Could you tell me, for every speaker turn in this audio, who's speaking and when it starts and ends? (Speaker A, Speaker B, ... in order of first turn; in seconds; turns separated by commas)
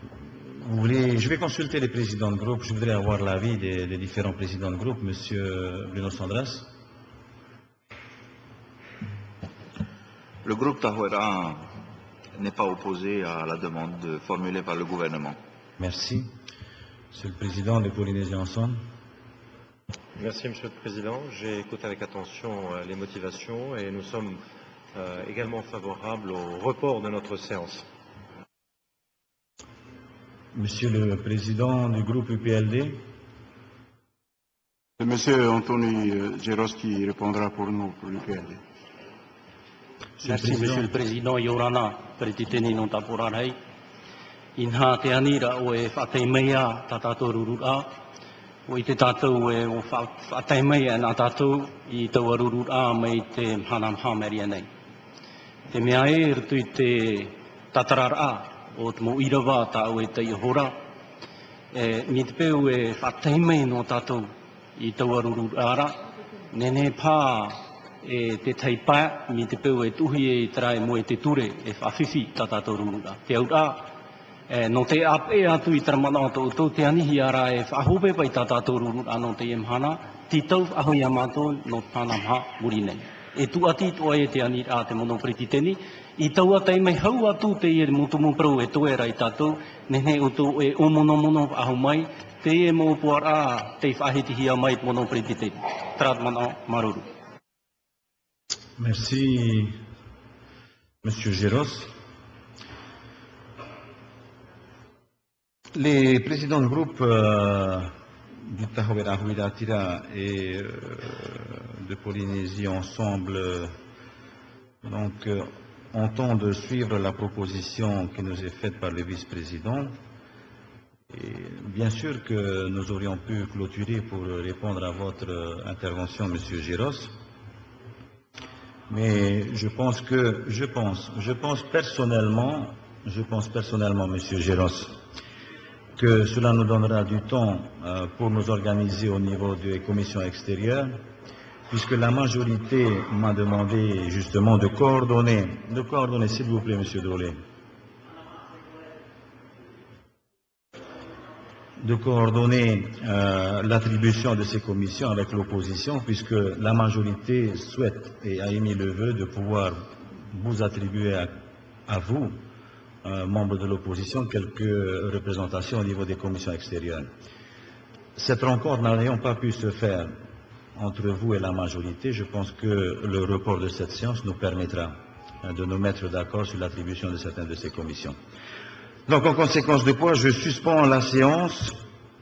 Speaker A: 0.5-6.7, Speaker B: 10.4-11.6, Speaker B: 12.4-15.4, Speaker A: 15.8-16.3, Speaker A: 17.1-18.8, Speaker C: 20.2-24.4, Speaker C: 24.9-27.8, Speaker A: 30.5-33.0, Speaker D: 35.0-38.5, Speaker A: 40.2-40.8, Speaker E: 40.2-43.5, Speaker E: 44.6-47.9, Speaker E: 48.7-54.7, Speaker E: 55.7-60.7, Speaker E: 61.7-66.0, Speaker E: 66.5-73.9, Speaker E: 74.5-97.0, Speaker A: 98.8-99.7, Speaker A: 101.0-101.9, Speaker A: 105.7-107.9, Speaker A: 108.4-113.7, Speaker A: 114.8-119.9, Speaker A: 121.1-127.1, Speaker A: 128.9-134.9, Speaker A: 136.0-140.9, Speaker A: 141.7-147.4, Speaker A: 151.8-161.3, Speaker A: 161.9-162.3, Speaker A: 163.0-167.1, Speaker A: 168.2-170.1, Speaker A: 170.8-178.2, Speaker A: 179.1-181.7